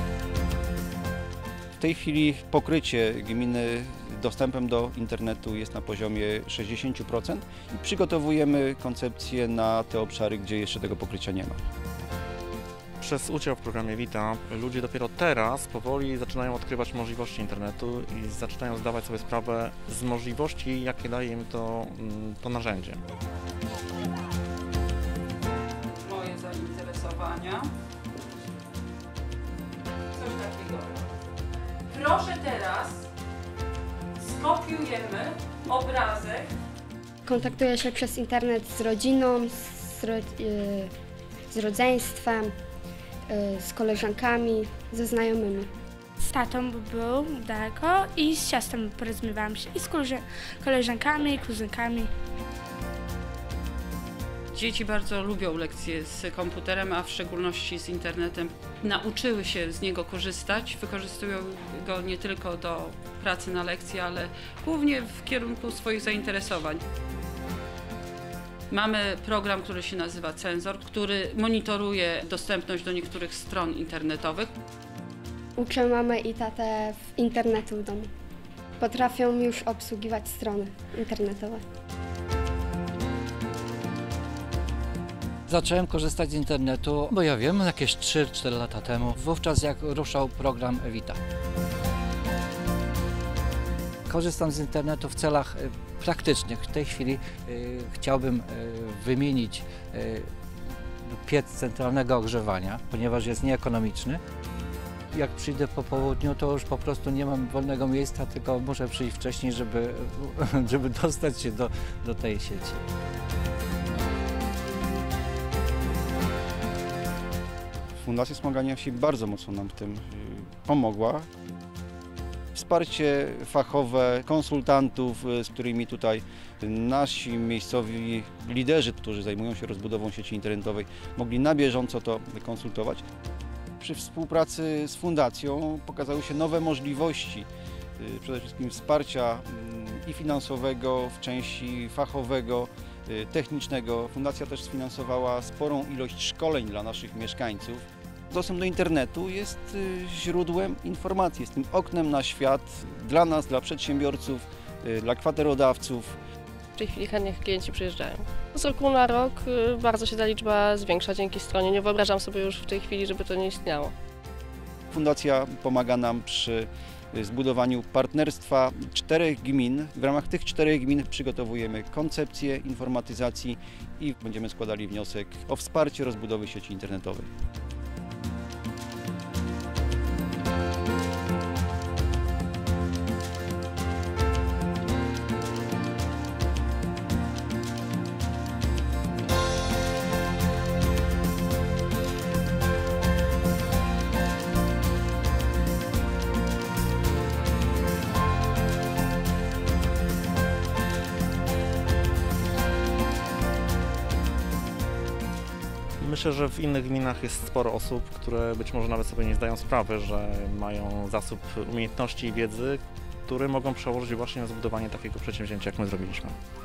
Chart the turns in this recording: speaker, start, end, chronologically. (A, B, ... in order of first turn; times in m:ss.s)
0:01.8-0:11.6 A
0:13.0-0:23.0 B
0:25.8-0:27.7 C
0:30.1-0:31.1 C
0:31.9-0:33.0 C
0:34.2-0:36.5 C
0:37.2-0:40.9 D
0:41.5-0:42.5 D
0:43.3-0:45.7 D
0:46.2-0:52.1 E
0:54.5-1:06.8 C
1:08.7-1:14.5 C
1:15.6-1:18.1 D
1:18.8-1:21.6 D
1:25.5-1:31.2 F
1:34.1-1:40.3 F
1:41.0-1:44.2 F
1:45.1-1:52.8 F
1:58.0-2:01.3 A
2:02.5-2:13.0 A
2:13.8-2:36.2 A
2:36.8-2:43.9 G
2:44.9-2:57.3 A
3:26.0-3:36.4 B